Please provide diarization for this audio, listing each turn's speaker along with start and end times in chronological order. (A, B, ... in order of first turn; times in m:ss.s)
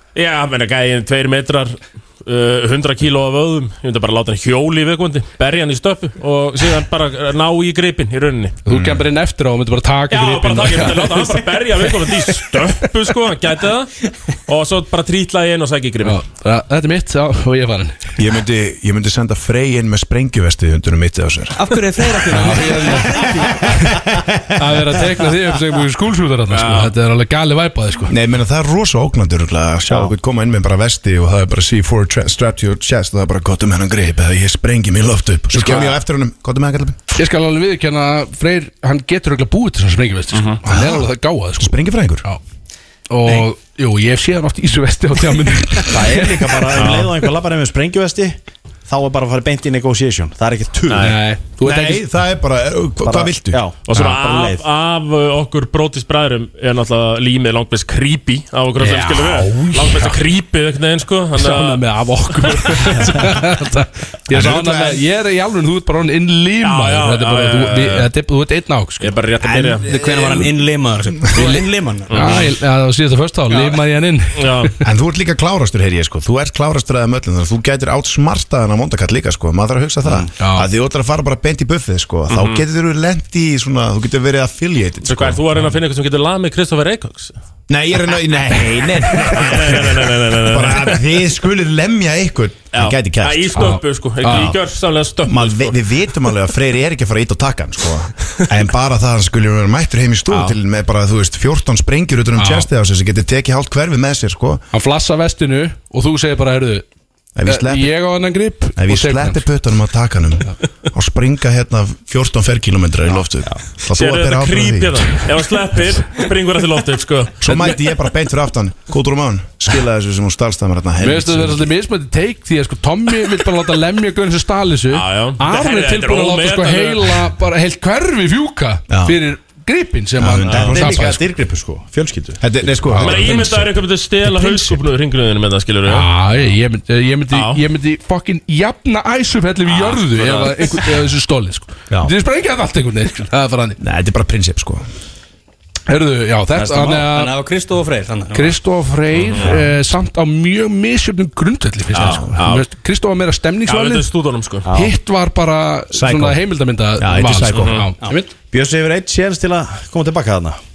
0:00.1-0:08.6 A
0:08.6-0:12.9 B
0:08.7-0:09.0 C
0:10.1-0:13.9 A
0:14.5-0:16.2 A
0:16.0-0:18.2 B
0:18.2-0:21.8 C
0:21.6-0:23.9 D
0:22.3-0:22.6 C
0:22.3-0:28.1 B
0:26.5-0:26.9 A
0:28.1-0:37.0 C
0:35.5-0:36.0 B
0:37.1-0:42.4 B
0:40.3-0:40.6 A
0:40.7-0:41.0 C
0:41.6-0:42.2 C
0:43.1-0:47.0 B
0:45.9-0:51.2 E
0:46.8-0:47.1 A
0:50.9-0:51.2 A
0:51.0-0:52.0 B
0:51.6-0:53.6 C
0:53.0-0:54.6 E
0:53.8-1:01.8 A
0:58.8-1:00.2 B
1:01.4-1:09.1 B
1:02.4-1:02.8 A
1:04.3-1:05.0 C
1:06.6-1:08.1 A
1:09.0-1:09.9 A
1:09.4-1:10.5 C
1:09.8-1:12.4 D
1:12.1-1:12.5 A
1:12.1-1:14.7 B
1:13.5-1:13.8 D
1:14.4-1:14.7 A
1:14.8-1:25.4 C
1:20.0-1:20.3 E
1:20.4-1:20.7 B
1:22.3-1:22.6 A
1:25.0-1:27.4 A
1:27.7-1:33.7 C
1:29.2-1:31.0 A
1:32.7-1:35.8 A
1:33.5-1:34.6 B
1:35.2-1:44.6 C
1:40.3-1:40.6 A
1:42.4-1:42.7 B
1:44.7-1:46.8 B
1:47.4-1:47.9 C
1:47.4-1:49.4 B
1:48.8-1:55.2 C
1:53.9-1:57.4 A
1:57.4-2:01.7 C
1:57.5-1:57.8 B
2:01.0-2:11.2 B
2:04.9-2:07.2 A
2:08.9-2:09.2 C
2:10.2-2:11.0 C
2:10.4-2:12.6 E
2:12.4-2:13.6 C
2:12.9-2:13.7 B
2:13.0-2:16.1 A
2:14.2-2:14.8 B
2:15.8-2:23.8 B
2:17.3-2:17.6 A
2:19.8-2:20.2 A
2:23.8-2:24.8 C
2:25.9-2:27.3 B
2:26.6-2:27.0 E
2:26.9-2:28.5 D
2:28.3-2:34.1 B
2:29.2-2:29.5 A
2:31.9-2:32.4 C
2:32.0-2:32.7 A
2:33.6-2:34.7 A
2:34.6-2:34.9 E
2:34.7-2:38.3 B
2:35.9-2:36.4 C
2:37.0-2:37.8 C
2:37.5-2:37.8 A
2:38.0-2:38.3 D
2:38.5-2:40.6 E